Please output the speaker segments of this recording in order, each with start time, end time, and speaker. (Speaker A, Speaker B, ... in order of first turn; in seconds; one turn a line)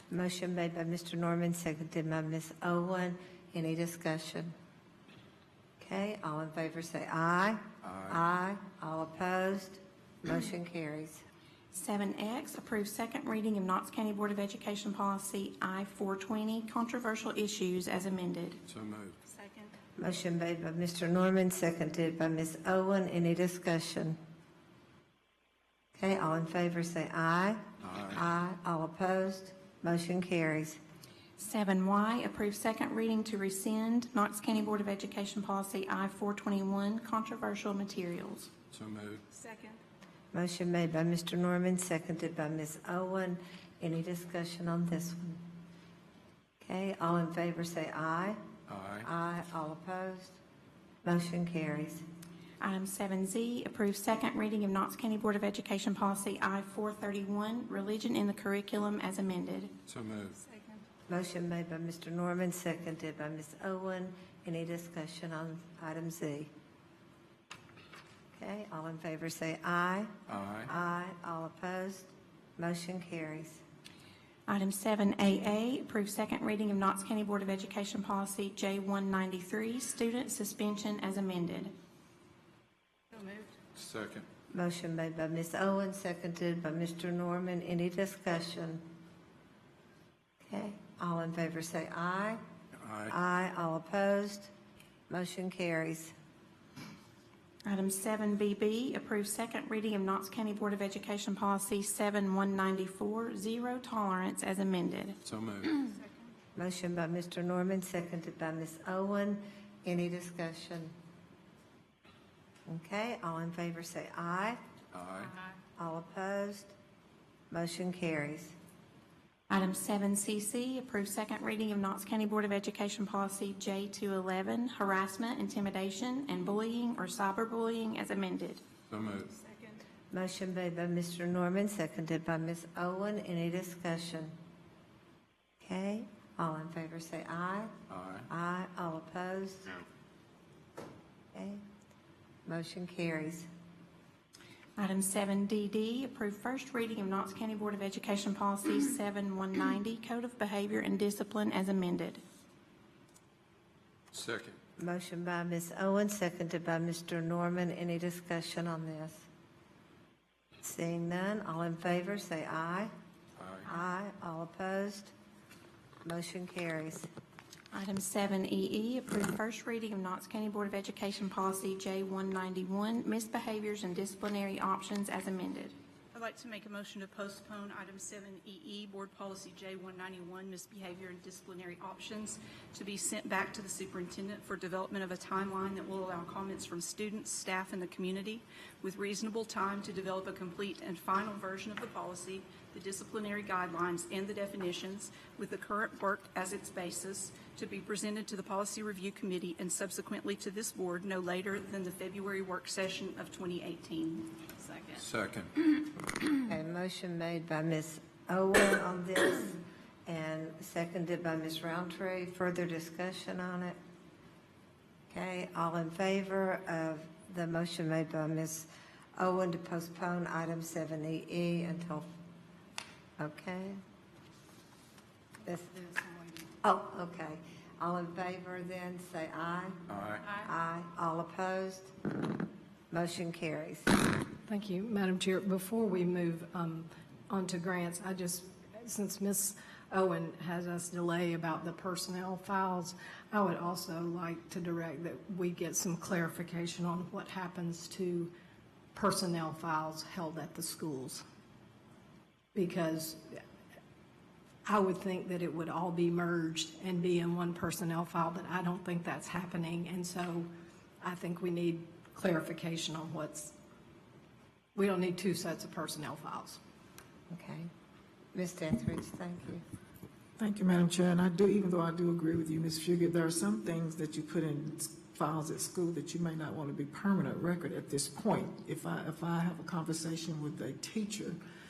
Speaker A: 0.1-4.5
Speaker A: 5.8-11.2
Speaker B: 7.8-8.2
Speaker C: 11.7-18.6
Speaker B: 18.7-19.2
Speaker D: 19.3-19.7
Speaker A: 20.0-24.2
Speaker A: 25.9-27.6
Speaker B: 27.8-28.2
Speaker A: 28.1-30.8
Speaker C: 31.4-38.5
Speaker B: 38.7-39.2
Speaker D: 39.3-39.8
Speaker A: 40.3-45.4
Speaker A: 46.6-48.4
Speaker B: 48.7-49.1
Speaker A: 49.0-50.4
Speaker A: 51.0-52.0
Speaker C: 52.6-59.7
Speaker B: 59.9-60.4
Speaker A: 61.1-66.5
Speaker A: 68.3-70.1
Speaker B: 70.3-70.7
Speaker A: 70.7-73.6
Speaker C: 74.5-81.7
Speaker D: 83.1-83.5
Speaker B: 83.8-84.2
Speaker A: 84.5-88.8
Speaker A: 90.4-92.4
Speaker B: 92.8-93.1
Speaker A: 93.1-94.5
Speaker A: 95.1-96.1
Speaker C: 97.7-105.2
Speaker B: 105.2-105.8
Speaker A: 106.5-110.9
Speaker A: 112.7-114.6
Speaker B: 114.9-115.3
Speaker A: 115.8-116.7
Speaker A: 117.5-118.5
Speaker C: 119.5-128.6
Speaker B: 128.9-129.3
Speaker D: 129.4-129.8
Speaker A: 130.1-134.3
Speaker A: 135.6-137.7
Speaker B: 137.9-138.3
Speaker A: 138.3-139.8
Speaker A: 141.3-141.6
Speaker A: 142.4-143.5
Speaker C: 144.8-152.2
Speaker B: 154.1-154.6
Speaker A: 154.8-159.3
Speaker A: 160.6-162.9
Speaker B: 163.4-163.7
Speaker A: 163.7-165.1
Speaker A: 166.0-167.1
Speaker C: 167.7-175.7
Speaker D: 176.1-205.0
Speaker B: 205.0-205.5
Speaker A: 206.4-213.8
Speaker A: 215.1-222.1
Speaker A: 223.2-223.8
Speaker A: 225.4-225.8
Speaker A: 226.6-229.8
Speaker B: 229.9-230.2
Speaker A: 230.3-231.9
Speaker A: 232.9-233.9
Speaker E: 234.4-248.3
Speaker E: 248.9-251.2
Speaker E: 252.5-253.4
Speaker E: 254.6-260.5
Speaker E: 261.0-263.6
Speaker E: 264.7-266.6
Speaker A: 267.3-267.7
Speaker A: 268.3-269.6
Speaker F: 270.4-281.4